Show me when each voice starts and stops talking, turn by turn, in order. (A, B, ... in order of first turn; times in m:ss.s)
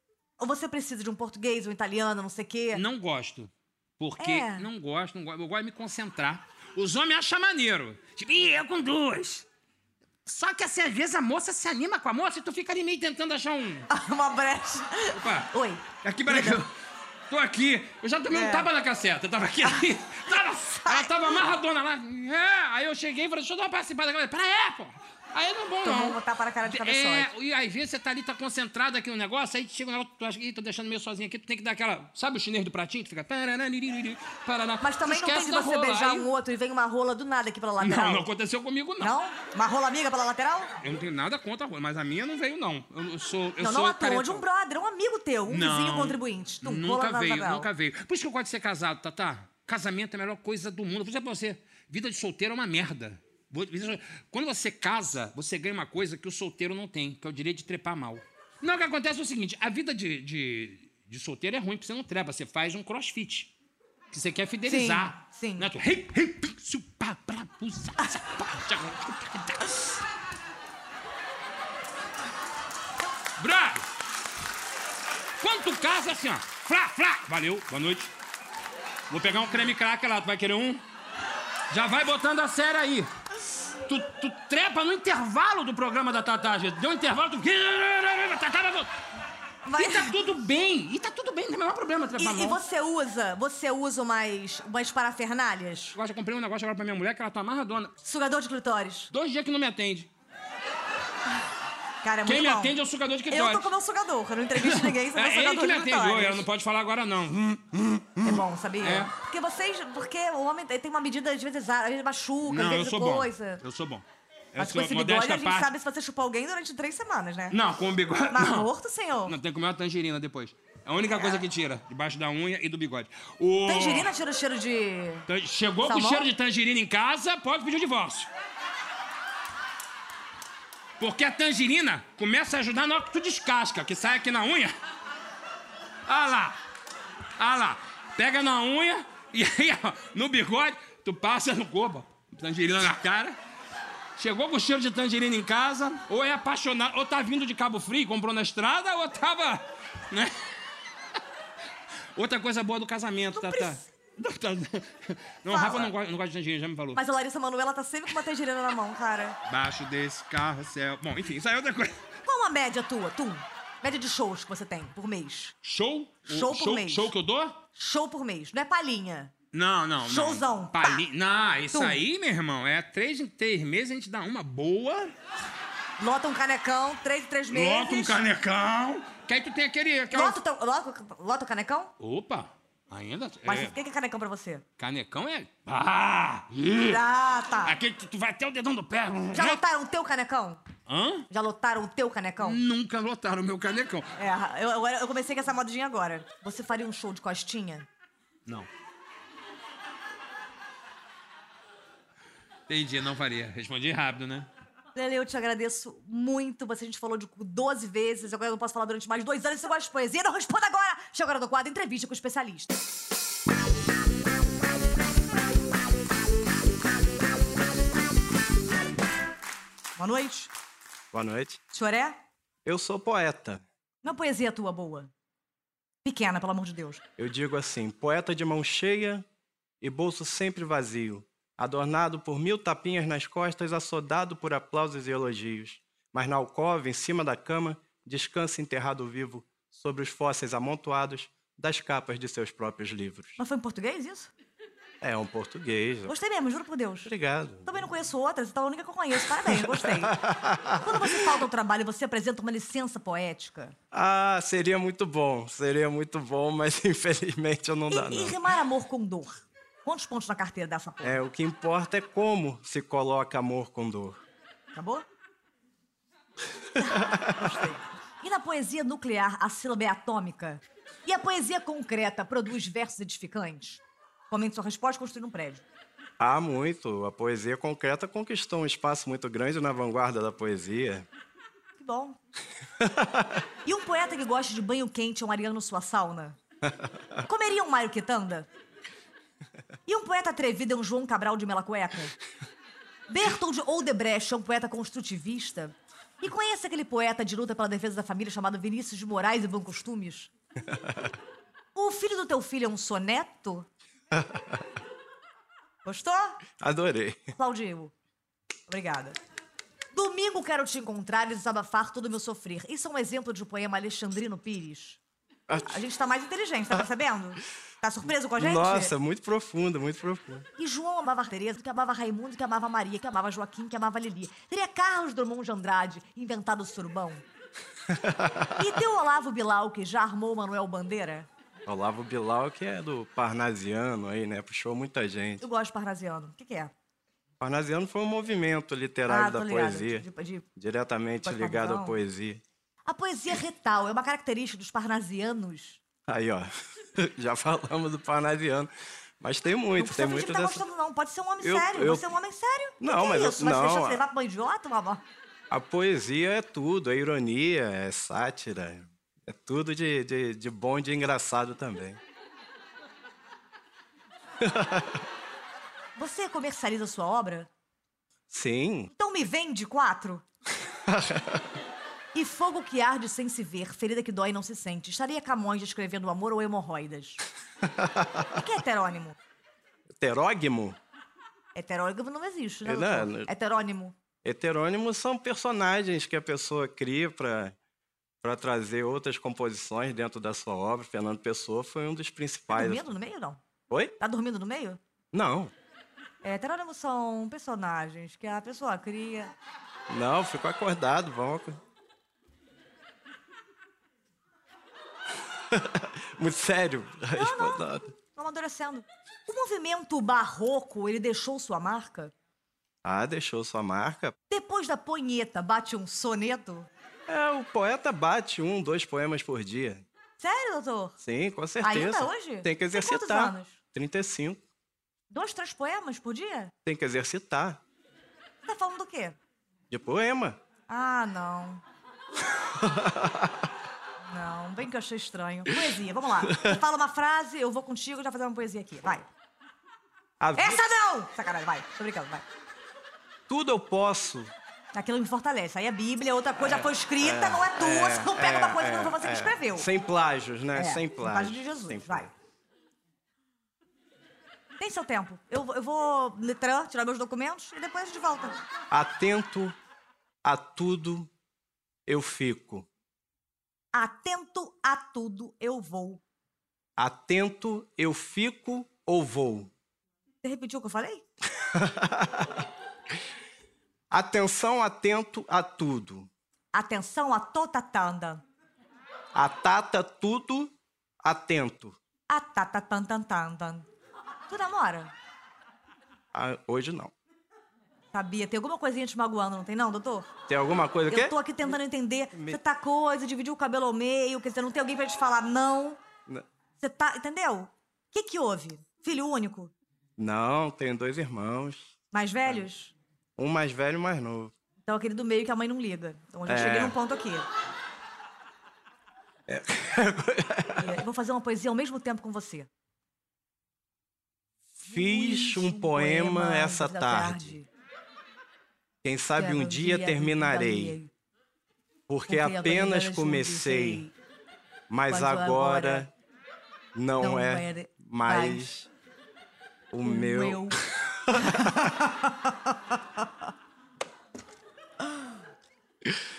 0:00.4-0:02.8 A
0:02.7-0:09.5 B
0:04.2-0:04.7 A
0:10.2-0:13.9 B
0:13.9-0:16.6 A
0:15.1-0:16.7 B
0:17.3-0:36.3 B
0:18.3-0:18.7 A
0:20.6-0:21.4 A
0:25.8-0:27.3 A
0:34.8-0:38.3 A
0:37.8-0:39.1 B
0:39.0-0:40.7 A
0:40.8-0:44.4 B
0:43.6-0:47.7 A
0:45.5-1:03.5 B
1:04.1-1:09.9 B
1:04.7-1:05.7 A
1:13.4-1:13.9 B
1:15.4-1:18.1 B
1:19.1-1:20.8 B
1:21.7-1:23.1 B
1:23.9-1:28.9 B
1:29.6-1:30.1 A
1:29.8-1:32.6 B
1:32.2-1:36.0 A
1:36.0-1:37.9 B
1:38.0-1:39.1 A
1:39.1-1:40.1 B
1:42.0-1:42.8 A
1:42.3-1:43.7 B
1:43.3-1:46.4 A
1:44.6-1:49.1 B
1:48.2-1:53.6 A
1:52.5-1:55.7 B
1:54.6-1:57.6 A
1:57.5-1:58.7 B
1:58.3-1:59.4 A
1:59.3-2:04.1 B
2:01.1-2:01.4 A
2:03.7-2:05.3 A
2:05.3-2:08.3 B
2:05.8-2:06.3 A
2:11.0-2:14.7 B
2:16.1-2:16.6 B
2:17.4-2:23.4 B
2:24.2-2:30.4 B
2:32.2-2:37.0 B
2:33.3-2:33.8 A
2:35.5-2:35.9 A
2:37.0-2:39.4 A
2:39.5-2:42.0 B
2:42.2-2:45.6 A
2:45.6-2:47.6 B
2:46.3-2:47.1 A
2:47.8-2:49.3 A
2:49.5-2:55.2 B
2:50.0-2:51.0 A
2:51.7-2:52.0 A
2:56.0-2:58.2 A
2:57.5-3:00.4 B
3:00.1-3:01.9 A
3:02.0-3:03.8 B
3:03.5-3:04.6 A
3:04.8-3:07.0 B
3:06.9-3:07.8 A
3:07.6-3:09.6 B
3:09.3-3:10.6 A
3:10.9-3:11.3 B
3:11.3-3:12.6 A
3:12.4-3:14.1 B
3:14.2-3:17.9 A
3:22.7-3:24.5 B
3:25.0-3:32.7 A
3:40.0-3:40.5 A
3:41.1-3:41.6 C
3:41.7-3:42.2 A
3:42.6-3:43.6 C
3:44.0-3:45.1 A
3:46.0-3:47.0 A
3:47.2-3:49.2 C
3:49.8-4:03.4 C
4:03.4-4:04.3 A
4:05.0-4:06.2 C
4:06.1-4:07.1 A
4:07.0-4:07.7 C
4:07.6-4:10.2 A
4:09.4-4:11.4 C
4:10.8-4:13.8 A
4:13.9-4:18.4 C
4:17.9-4:21.2 A
4:21.0-4:24.2 C
4:24.7-4:25.0 A
4:26.8-4:35.6 A
4:36.2-4:41.1 C
4:41.8-4:42.2 A
4:43.0-4:43.2 C
4:43.6-4:46.4 A
4:47.3-4:48.5 A
4:49.9-4:52.2 A
4:53.1-5:00.3 A
5:00.7-5:01.1 C
5:01.8-5:03.7 A
5:04.1-5:04.6 C
5:05.8-5:06.4 A
5:06.6-5:07.3 C
5:07.4-5:07.9 A
5:08.7-5:09.2 A
5:09.9-5:15.0 A
5:15.5-5:15.8 C
5:15.6-5:18.9 A
5:18.4-5:20.5 C
5:20.6-5:27.2 A
5:27.9-5:28.7 C
5:28.6-5:31.3 A
5:31.7-5:35.4 C
5:35.4-5:36.7 A
5:37.4-5:40.0 C
5:39.1-5:40.5 A
5:40.6-5:42.4 C
5:41.2-5:42.0 A
5:42.9-5:45.8 A
5:46.1-5:50.6 C
5:49.8-5:55.0 A
5:51.4-5:52.1 C
5:52.8-5:54.0 C
5:55.5-6:02.0 C
6:04.4-6:05.0 C
6:06.0-6:07.5 A
6:08.3-6:08.9 C
6:08.9-6:10.2 A
6:10.9-6:11.4 C
6:12.1-6:17.2 A
6:17.8-6:18.3 C
6:18.4-6:19.2 A
6:19.9-6:20.8 C
6:21.6-6:24.0 A
6:22.6-6:23.3 C
6:24.2-6:27.6 C
6:28.2-6:32.9 C
6:32.5-6:33.4 A
6:33.7-6:34.0 C
6:34.0-6:34.8 A
6:35.1-6:35.5 C
6:36.2-6:39.3 A
6:39.9-6:41.6 C
6:45.5-6:47.9 C
6:47.2-6:52.1 A
6:52.8-6:54.2 C
6:54.3-6:56.7 A
6:57.1-6:59.9 C
7:00.2-7:01.0 A
7:01.0-7:04.4 C
7:01.6-7:03.6 A
7:05.1-7:06.5 A
7:06.7-7:07.6 C
7:08.4-7:09.2 A
7:09.7-7:10.4 C
7:10.7-7:11.6 A
7:12.6-7:13.4 C
7:14.0-7:19.1 A
7:20.2-7:20.6 C
7:20.4-7:22.2 A
7:23.3-7:24.3 C
7:24.7-7:29.7 A
7:26.4-7:32.1 C
7:30.6-7:32.1 A
7:34.6-7:38.4 A
7:38.7-7:39.6 C
7:40.2-7:41.1 C
7:41.9-7:42.7 C
7:43.7-7:46.0 A
7:46.8-7:49.5 C
7:50.2-7:51.0 A
7:51.4-7:52.4 C
7:53.9-7:56.1 C
7:56.5-7:58.2 A
7:59.1-8:01.8 C
8:02.1-8:03.7 A
8:04.3-8:04.9 A
8:06.1-8:06.9 C
8:07.9-8:10.1 A
8:10.3-8:11.2 C
8:10.9-8:15.8 A
8:12.1-8:12.4 C
8:16.6-8:19.5 A
8:20.0-8:21.7 C
8:21.9-8:22.8 A
8:23.2-8:24.3 C
8:24.7-8:27.3 A
8:26.3-8:26.8 C
8:29.3-8:30.8 C
8:30.6-8:32.5 A
8:34.6-8:37.5 A
8:34.6-8:37.4 C
8:38.8-8:40.8 C
8:39.2-8:40.9 A
8:41.9-8:43.9 C
8:42.1-8:43.9 A
8:44.7-8:45.9 C
8:44.9-8:45.9 A
8:46.8-8:48.7 C
8:47.0-8:48.5 A
8:49.7-8:51.7 C
8:49.8-8:53.1 A